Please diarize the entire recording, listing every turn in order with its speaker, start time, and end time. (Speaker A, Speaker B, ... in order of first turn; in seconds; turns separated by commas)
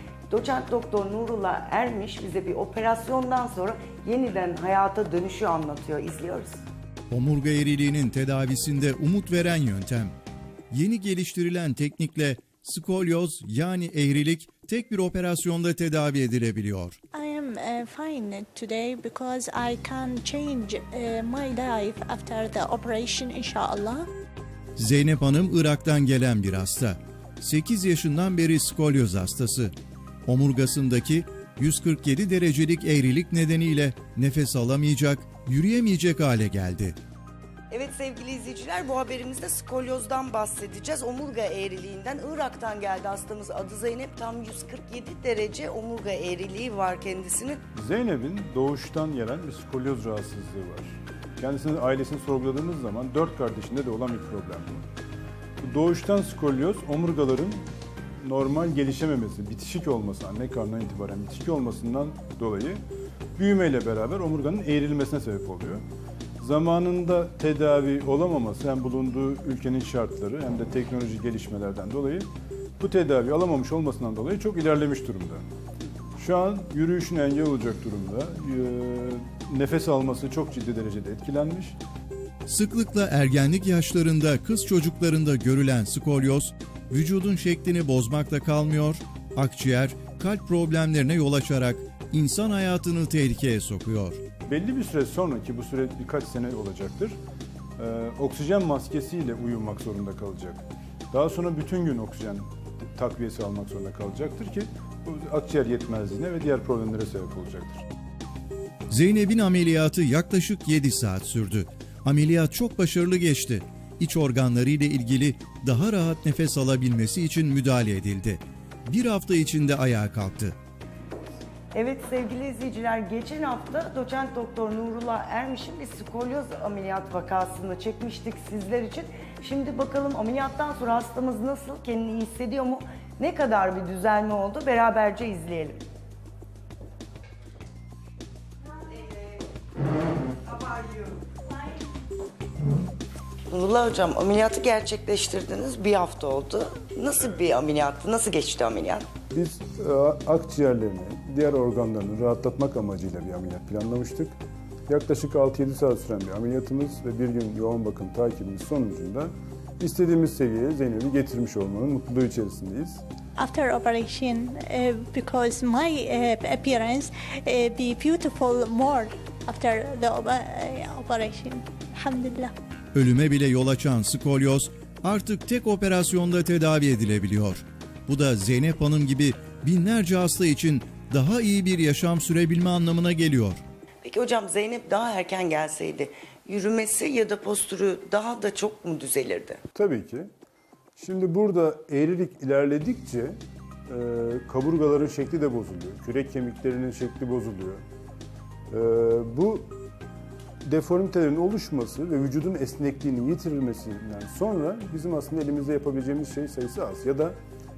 Speaker A: 0.3-6.6, Speaker B: 7.1-10.1, Speaker B: 10.7-17.0, Speaker C: 17.1-24.1, Speaker B: 24.8-29.7, Speaker B: 30.2-37.0, Speaker A: 37.7-47.6, Speaker D: 47.7-54.9, Speaker D: 55.6-57.6, Speaker D: 58.2-62.8, Speaker D: 63.4-65.8, Speaker D: 66.4-72.3, Speaker D: 72.8-75.4, Speaker D: 76.2-81.8, Speaker B: 82.5-94.2, Speaker D: 94.5-97.2, Speaker D: 97.8-107.8, Speaker B: 108.9-120.5, Speaker A: 121.7-135.8, Speaker A: 138.9-139.4, Speaker A: 140.5-141.2, Speaker A: 143.5-149.0, Speaker D: 149.3-163.0, Speaker C: 163.4-172.5, Speaker B: 172.9-183.6, Speaker A: 184.0-189.6, Speaker D: 189.7-190.3, Speaker D: 191.0-193.4, Speaker D: 193.9-197.8, Speaker D: 198.7-199.8, Speaker D: 200.7-207.3